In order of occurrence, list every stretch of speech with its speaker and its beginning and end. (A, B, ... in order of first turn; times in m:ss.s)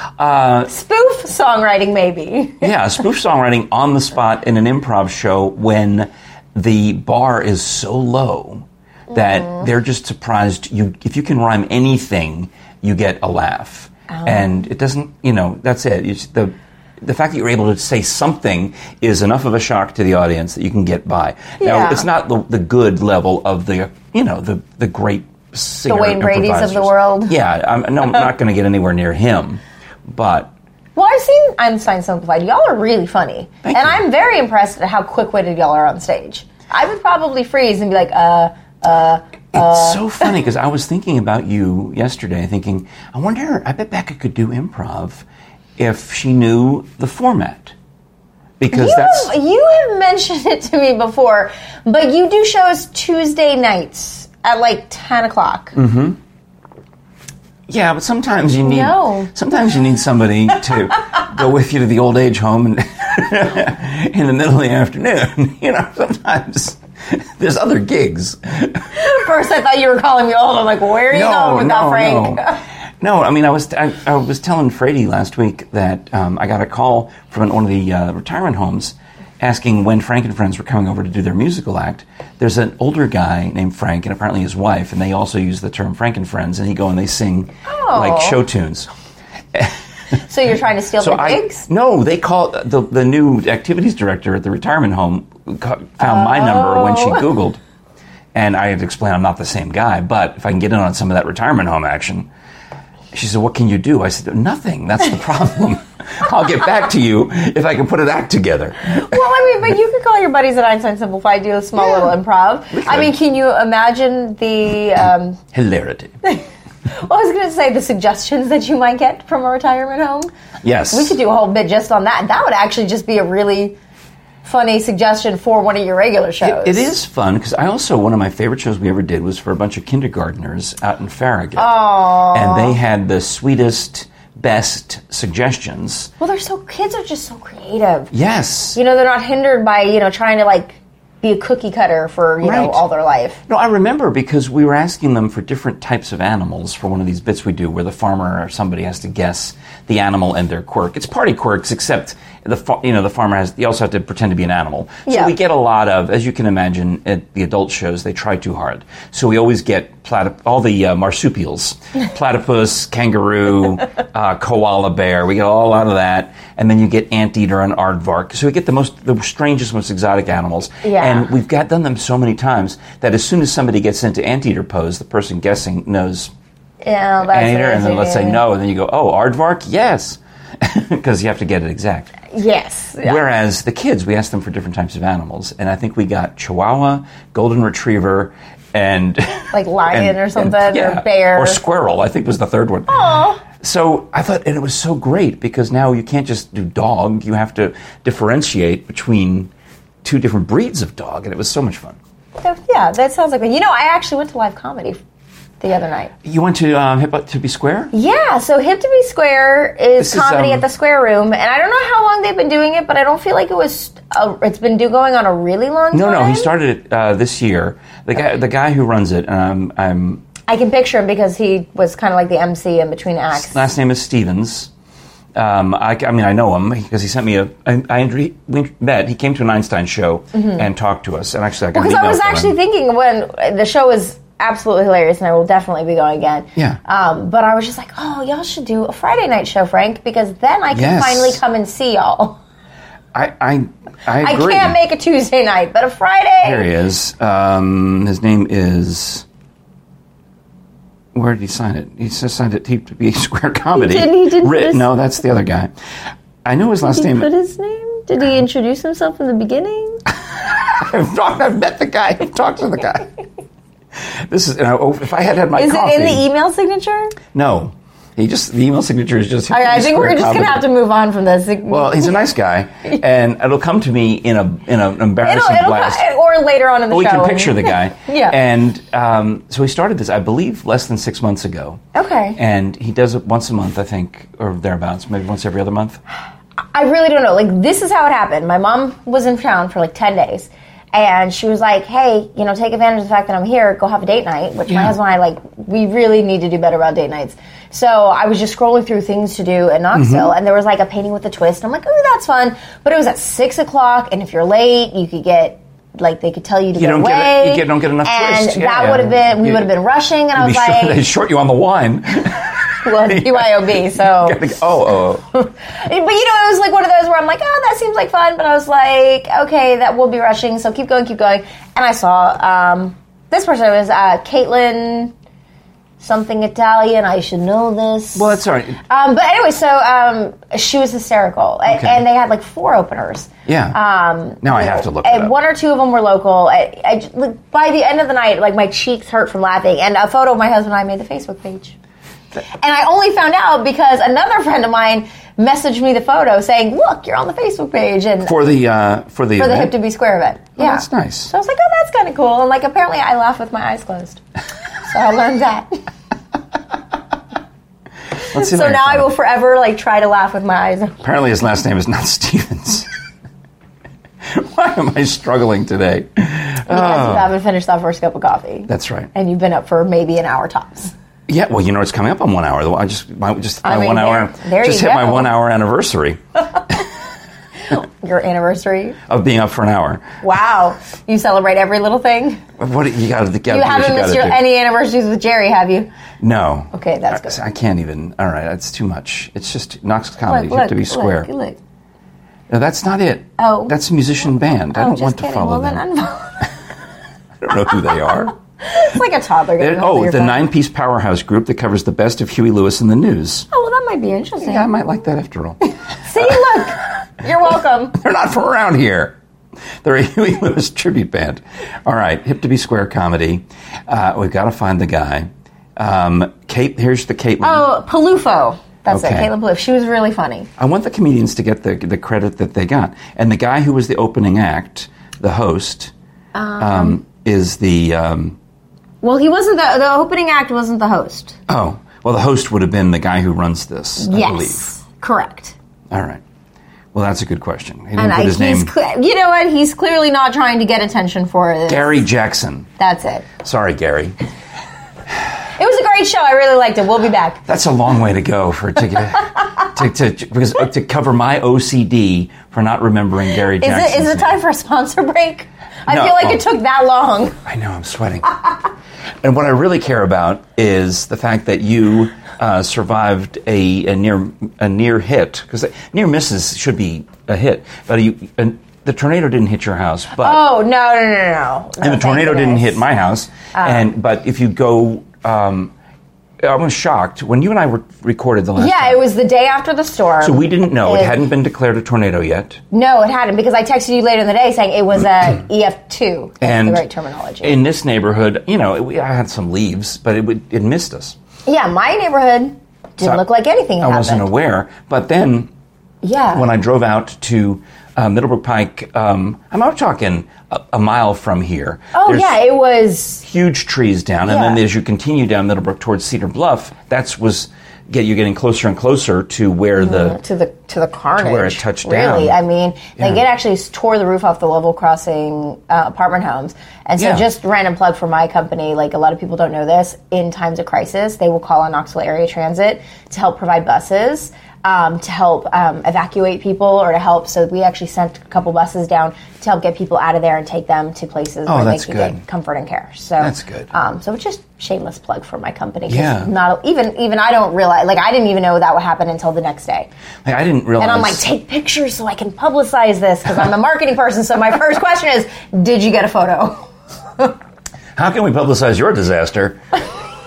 0:00.2-0:00.7 A
0:00.7-0:02.7 B
0:02.6-0:30.5 A
0:09.1-0:09.6 B
0:14.1-0:14.6 B
0:21.6-0:22.0 B
0:25.9-0:27.4 B
0:31.0-0:40.3 B
0:33.6-0:34.0 A
0:39.5-0:45.2 A
0:45.8-0:47.7 A
0:48.6-0:49.3 A
0:48.7-0:55.8 B
0:55.8-0:56.2 A
0:57.7-1:08.9 A
0:58.6-0:59.3 B
1:09.0-1:12.6 B
1:11.1-1:28.9 A
1:27.7-1:28.4 B
1:30.2-1:31.7 B
1:31.0-1:37.6 A
1:36.0-1:37.3 B
1:38.3-1:42.3 A
1:43.1-1:49.1 A
1:48.9-1:55.4 B
1:52.7-1:53.1 A
1:55.5-1:56.1 A
1:56.2-2:00.3 B
2:00.6-2:01.1 A
2:00.9-2:03.8 B
2:04.4-2:06.9 B
2:06.4-2:11.8 A
2:11.6-2:12.8 B
2:12.3-2:16.1 A
2:16.2-2:18.1 B
2:18.1-2:18.8 A
2:18.8-2:23.4 B
2:22.4-2:22.8 A
2:23.5-2:56.3 A
2:35.1-2:35.3 B
2:50.8-2:51.3 B
2:56.8-2:58.4 B
2:57.3-3:02.2 A
3:02.3-3:03.2 B
3:03.0-3:19.5 A
3:09.5-3:11.6 B
3:12.9-3:13.4 B
3:20.0-3:22.0 A
3:22.4-3:25.0 B
3:25.6-3:26.1 B
3:26.2-3:27.9 A
3:27.9-3:36.5 B
3:30.0-3:30.6 A
3:35.9-3:40.3 A
3:40.5-3:43.6 B
3:43.3-3:44.7 A
3:45.4-3:52.6 A
3:50.4-3:50.6 B
3:51.7-4:02.4 B
4:00.7-4:01.4 A
4:03.1-4:04.8 A
4:04.2-4:06.7 B
4:06.4-4:09.2 A
4:11.2-4:15.7 A
4:13.7-4:14.9 B
4:16.4-4:17.3 A
4:16.8-4:20.0 B
4:20.7-4:23.1 A
4:24.3-4:26.2 A
4:25.6-4:27.2 B
4:27.3-4:30.7 A
4:29.5-4:32.2 B
4:31.7-4:36.0 A
4:35.2-4:38.4 B
4:36.9-4:41.8 A
4:41.9-4:42.4 B
4:42.4-4:46.0 A
4:46.7-5:11.0 B
4:54.7-4:54.9 A
4:59.9-5:00.3 A
5:06.8-5:09.7 A
5:10.4-5:15.2 A
5:12.8-5:14.4 B
5:15.3-5:25.1 B
5:26.0-5:41.8 B
5:28.2-5:28.8 A
5:31.7-5:32.0 A
5:33.5-5:33.8 A
5:34.4-5:35.3 A
5:42.5-5:48.4 B
5:48.2-5:49.7 A
5:49.4-5:54.2 B
5:50.6-5:51.3 A
5:54.8-5:55.8 B
5:58.3-5:59.1 A
5:58.3-6:01.0 B
6:01.0-6:02.9 A
6:04.2-6:07.3 A
6:06.7-6:10.9 B
6:08.7-6:09.1 A
6:11.3-6:16.8 A
6:13.6-6:15.3 B
6:17.7-6:19.0 B
6:19.1-6:20.2 A
6:20.2-6:22.4 B
6:22.6-6:24.4 A
6:23.5-6:25.9 B
6:26.2-6:31.3 A
6:26.7-6:27.4 B
6:30.2-6:31.6 B
6:32.5-6:35.8 A
6:33.4-6:33.8 B
6:34.7-6:36.5 B
6:37.4-6:38.4 A
6:38.6-6:40.4 B
6:39.6-6:43.5 A
6:43.5-6:44.7 B
6:44.4-6:45.7 A
6:46.1-6:48.0 B
6:48.0-6:49.2 A
6:49.8-6:57.7 A
6:57.4-7:00.5 B
6:58.9-6:59.3 A
7:00.6-7:05.9 A
7:06.3-7:07.0 B
7:06.6-7:08.4 A
7:09.0-7:11.4 B
7:11.5-7:14.7 A
7:14.0-7:15.6 B
7:15.9-7:16.2 A
7:16.9-7:18.7 A
7:18.0-7:22.0 B
7:21.7-7:22.7 A
7:22.8-7:23.3 B
7:23.4-7:24.2 A
7:25.6-7:27.4 B
7:27.5-7:34.4 A
7:33.5-7:37.4 B
7:35.9-7:36.4 A
7:37.5-7:38.4 A
7:39.2-7:50.4 A
7:50.2-7:52.8 B
7:51.8-7:55.7 A
7:53.5-7:53.9 B
7:56.4-7:59.0 A
7:58.6-8:01.2 B
8:00.2-8:02.6 A
8:02.7-8:07.6 B
8:06.4-8:06.8 A
8:07.4-8:11.2 A
8:11.5-8:14.3 B
8:13.8-8:15.5 A
8:16.0-8:16.5 B
8:16.3-8:22.4 A
8:21.9-8:23.2 B
8:23.2-8:30.2 A
8:24.3-8:24.6 B
8:29.8-8:59.9 B
8:31.2-8:32.4 A
8:37.0-8:37.3 A
8:51.5-8:52.2 A
8:53.2-8:53.7 A
8:55.9-8:56.3 A
9:00.2-9:01.2 A
9:00.8-9:06.6 B
9:08.0-9:09.6 A